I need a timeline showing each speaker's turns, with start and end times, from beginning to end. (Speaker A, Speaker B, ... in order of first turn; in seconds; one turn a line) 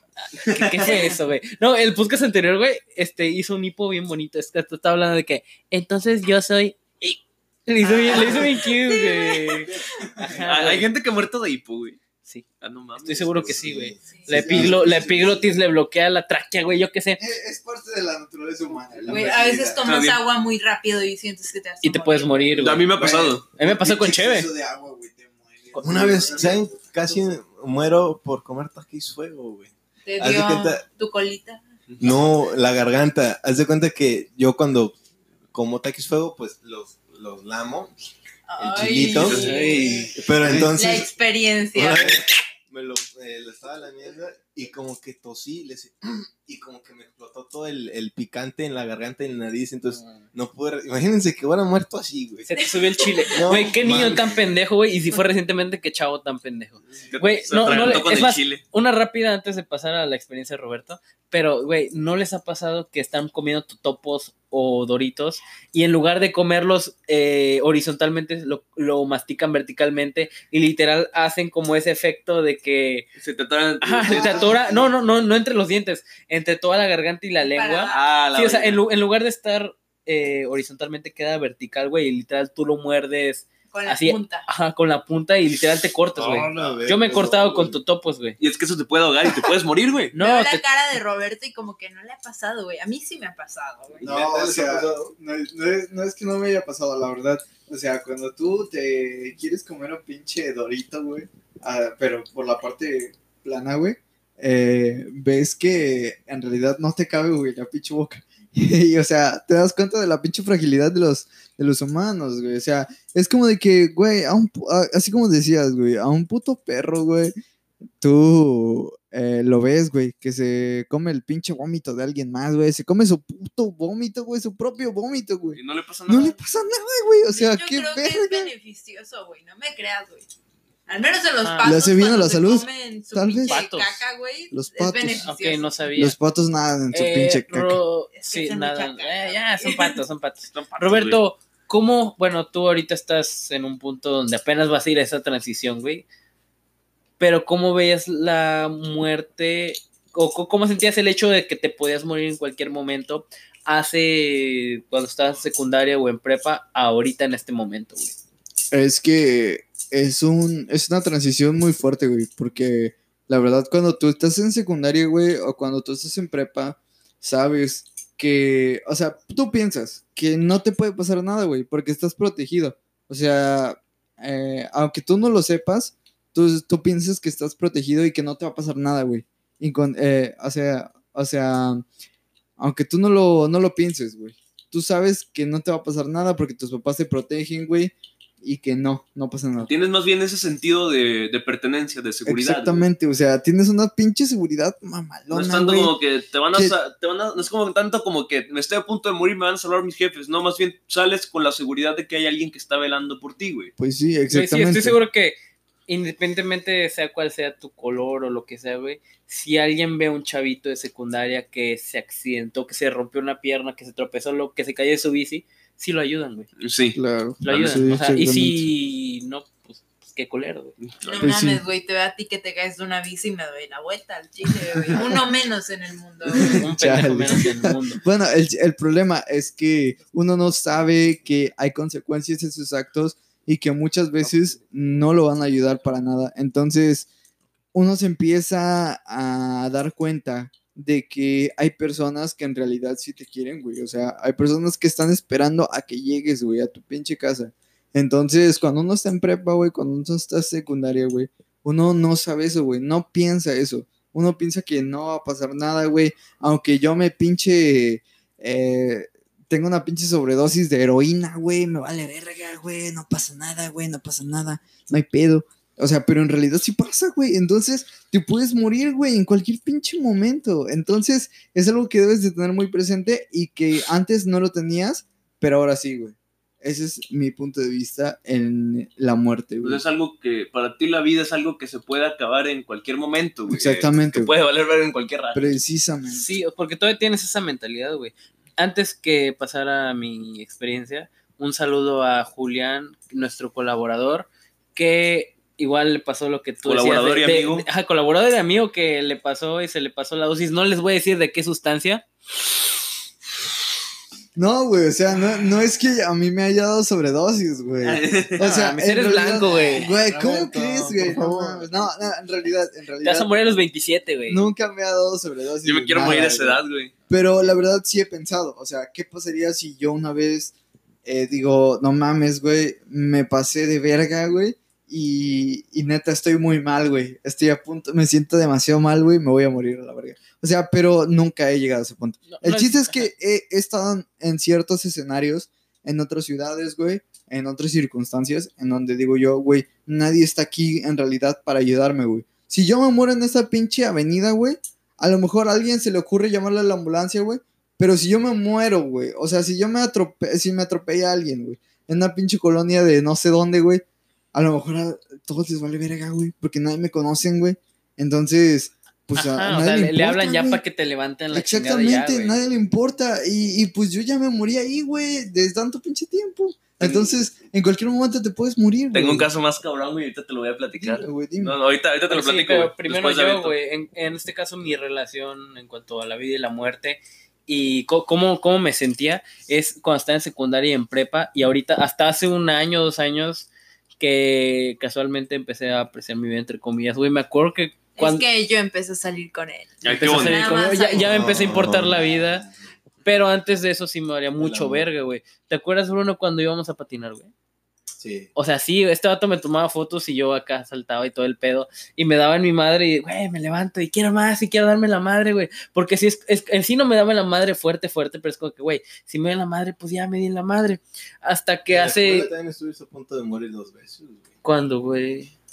Speaker A: 0.3-10.9
Speaker B: 0.8-1.2
Speaker B: 7.8-10.2
Speaker C: 10.0-10.3
Speaker D: 10.4-12.0
Speaker D: 12.6-13.5
Speaker A: 13.0-17.2
Speaker E: 13.4-15.1
Speaker B: 14.1-14.4
Speaker C: 14.3-15.4
Speaker C: 17.2-19.8
Speaker E: 18.7-19.5
Speaker B: 19.1-22.5
Speaker D: 19.8-20.2
Speaker A: 21.8-22.9
Speaker D: 22.5-23.4
Speaker C: 22.9-27.3
Speaker A: 23.5-24.5
Speaker A: 25.7-26.3
Speaker E: 25.8-30.8
Speaker B: 30.0-31.6
Speaker D: 31.9-32.2
Speaker E: 32.0-35.0
Speaker E: 35.5-38.0
Speaker B: 38.5-42.4
Speaker E: 38.6-41.1
Speaker D: 39.0-39.8
Speaker A: 39.3-40.1
Speaker C: 39.7-40.8
Speaker E: 41.7-52.5
Speaker A: 52.5-73.1
Speaker B: 52.5-53.5
Speaker E: 53.3-54.5
Speaker D: 57.1-58.6
Speaker D: 73.2-74.6
Speaker A: 73.8-88.4
Speaker E: 74.0-74.9
Speaker B: 77.5-78.0
Speaker D: 77.9-78.8
Speaker B: 83.7-84.5
Speaker E: 86.2-87.8
Speaker D: 86.5-86.8
Speaker D: 88.4-90.1
Speaker A: 90.1-90.6
Speaker B: 90.2-94.0
Speaker E: 94.0-95.1
Speaker C: 94.0-117.3
Speaker C: 118.0-128.5
Speaker D: 125.5-126.4
Speaker B: 127.3-130.2
Speaker B: 130.9-135.7
Speaker A: 131.4-131.8
Speaker C: 131.6-133.7
Speaker A: 133.4-134.0
Speaker C: 134.5-135.2
Speaker A: 135.2-136.2
Speaker C: 136.0-137.8
Speaker A: 136.9-146.0
Speaker B: 138.1-140.0
Speaker D: 140.5-141.2
Speaker A: 147.2-158.2
Speaker C: 158.7-181.8
Speaker C: 182.6-189.7
Speaker D: 189.7-192.8
Speaker C: 192.2-195.9
Speaker D: 195.3-203.7
Speaker C: 203.8-205.0
Speaker A: 204.3-205.3
Speaker A: 205.9-216.5
Speaker D: 216.6-217.9
Speaker C: 216.9-218.7
Speaker A: 217.4-220.7
Speaker D: 220.8-221.3
Speaker B: 221.1-226.7
Speaker C: 221.2-221.6
Speaker C: 224.9-225.2
Speaker C: 226.3-237.1
Speaker A: 226.5-228.0
Speaker C: 237.7-279.8
Speaker D: 279.6-285.6
Speaker C: 283.5-284.3
Speaker C: 285.3-286.2
Speaker A: 286.1-302.0
Speaker D: 296.6-297.6
Speaker C: 304.4-313.4
Speaker D: 307.8-308.5
Speaker A: 308.4-309.9
Speaker E: 309.7-312.1
Speaker A: 313.0-314.4
Speaker C: 314.3-320.5
Speaker D: 315.6-316.9
Speaker C: 321.0-353.8
Speaker A: 332.3-333.1
Speaker C: 354.3-360.6
Speaker A: 359.1-362.4
Speaker C: 361.3-369.3
Speaker D: 368.9-373.5
Speaker C: 370.8-371.6
Speaker A: 372.1-383.5
Speaker A: 384.0-388.2
Speaker B: 388.0-391.1
Speaker D: 389.8-390.6
Speaker A: 389.8-392.4
Speaker E: 390.9-392.6
Speaker A: 393.0-397.3
Speaker E: 394.4-394.9
Speaker E: 398.0-398.3
Speaker A: 398.3-412.3
Speaker E: 411.7-414.3
Speaker A: 414.4-415.3